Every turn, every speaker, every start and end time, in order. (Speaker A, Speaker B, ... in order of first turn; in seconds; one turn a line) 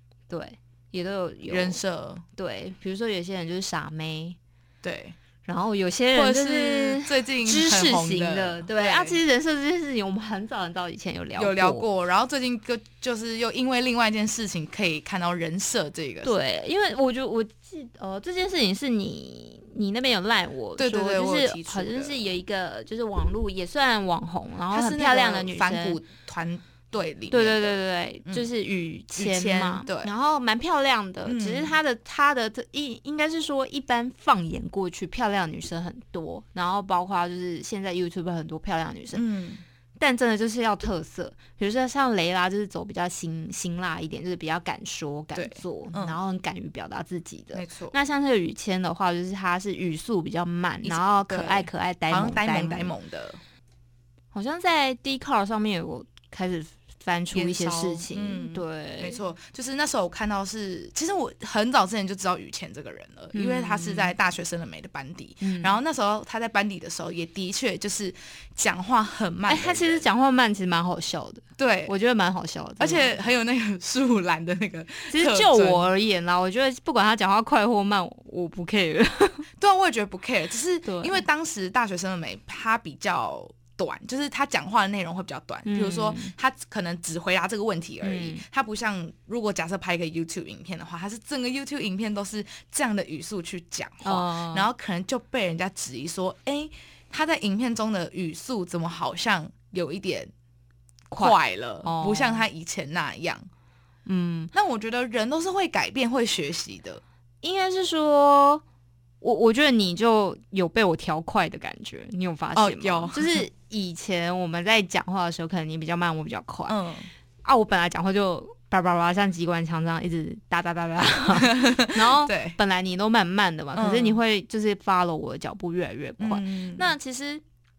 Speaker A: 0.3-1.8
Speaker B: 1.5-2.2
Speaker A: 2.4-4.4
Speaker B: 4.8-5.2
Speaker A: 5.4-11.9
Speaker B: 6.1-9.2
Speaker B: 11.3-16.3
Speaker A: 16.2-26.0
Speaker B: 20.8-22.3
Speaker B: 24.7-28.5
Speaker A: 27.3-39.2
Speaker B: 29.1-30.1
Speaker B: 31.2-31.8
Speaker B: 39.1-39.6
Speaker A: 40.0-53.0
Speaker B: 45.3-46.2
Speaker B: 47.5-48.0
Speaker B: 50.8-53.4
Speaker A: 54.3-59.2
Speaker B: 57.3-70.0
Speaker A: 63.3-64.1
Speaker A: 65.4-65.8
Speaker A: 69.5-73.2
Speaker B: 71.6-71.9
Speaker B: 72.8-75.9
Speaker A: 75.1-79.5
Speaker B: 79.6-100.3
Speaker A: 80.8-81.2
Speaker A: 85.6-86.3
Speaker A: 88.0-88.4
Speaker A: 94.0-94.7
Speaker A: 101.1-102.5
Speaker B: 101.2-103.5
Speaker A: 104.0-104.5
Speaker B: 104.5-107.0
Speaker A: 107.4-108.6
Speaker A: 109.2-116.8
Speaker B: 112.5-113.5
Speaker B: 116.7-117.1
Speaker A: 117.4-127.4
Speaker B: 121.3-122.6
Speaker B: 123.7-124.2
Speaker B: 126.2-127.0